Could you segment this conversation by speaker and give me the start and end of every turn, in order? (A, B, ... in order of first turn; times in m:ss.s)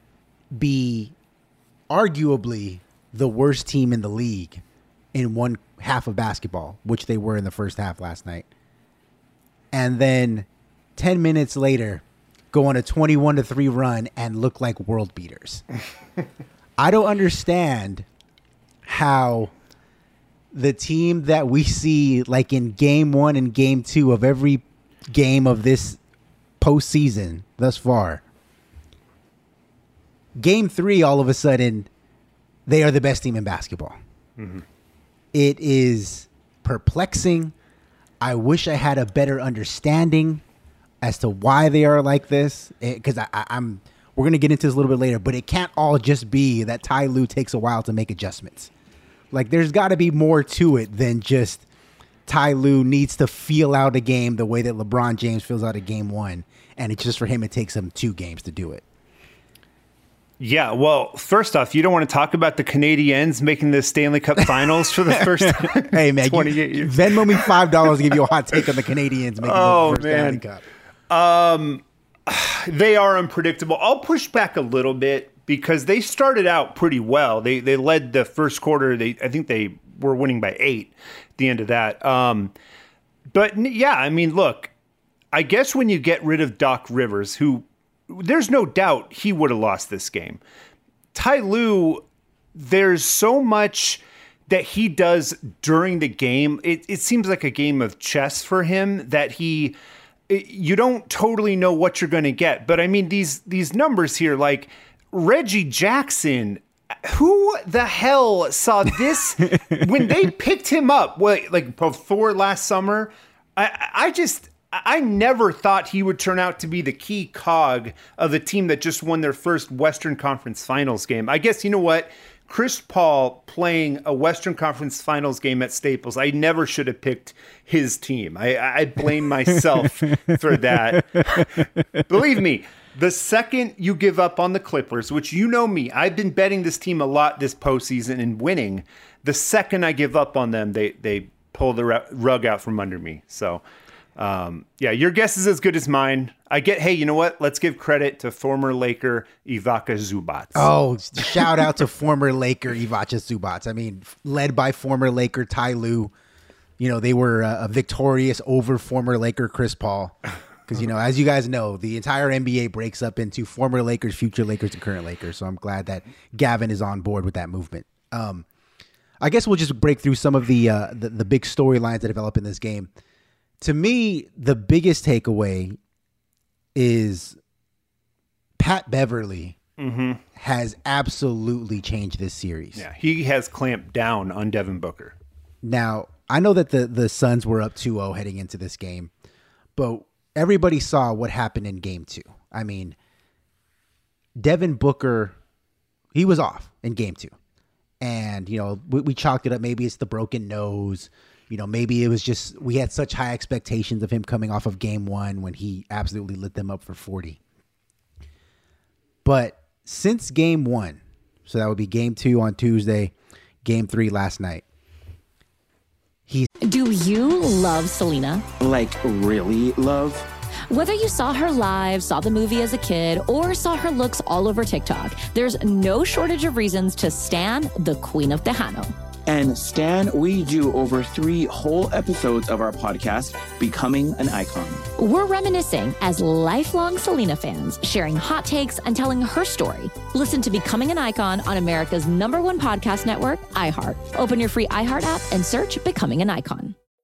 0:00.5-0:01.1 A
0:01.9-0:04.6 A
0:05.1-0:08.5 A
0:09.7-0:15.6 A
0:16.8-0:18.0 A
0:18.8-0:19.5 A
0:20.5-0:26.0 A
0:26.6-0:28.2 A
0:30.4-0:31.9 A
0:32.7-0:34.0 A
0:34.4-0:34.6 B
0:35.3-0:37.5 A
0:38.2-0:40.4 A
0:41.0-0:48.7 A
0:49.3-0:51.6 A
0:52.2-0:58.8 A
1:00.4-1:07.9 B
1:04.4-1:10.6 A
1:09.4-1:10.4 B
1:11.1-1:22.5 B
1:23.3-1:24.7 B
1:25.3-1:30.4 B
1:31.1-1:32.0 B
1:32.5-1:39.8 B
1:40.3-2:11.5 B
2:09.8-2:11.5 A
2:12.1-2:23.6 B
2:24.2-2:30.7 B
2:30.5-2:36.1 A
2:36.8-2:48.4 A
2:49.2-2:52.9 A
2:53.6-2:55.8 A
2:56.7-2:57.4 A
2:58.6-2:59.6 A
2:59.8-3:00.2 B
3:00.3-3:02.8 A
3:02.8-3:05.2 B
3:05.6-3:09.1 A
3:09.8-3:13.0 A
3:14.4-3:15.4 A
3:16.1-3:17.3 A
3:18.0-3:27.4 A
3:29.2-3:34.6 A
3:36.6-3:38.4 C
3:38.6-3:40.3 D
3:40.7-3:48.9 C
3:49.3-3:54.8 D
3:55.0-4:06.7 C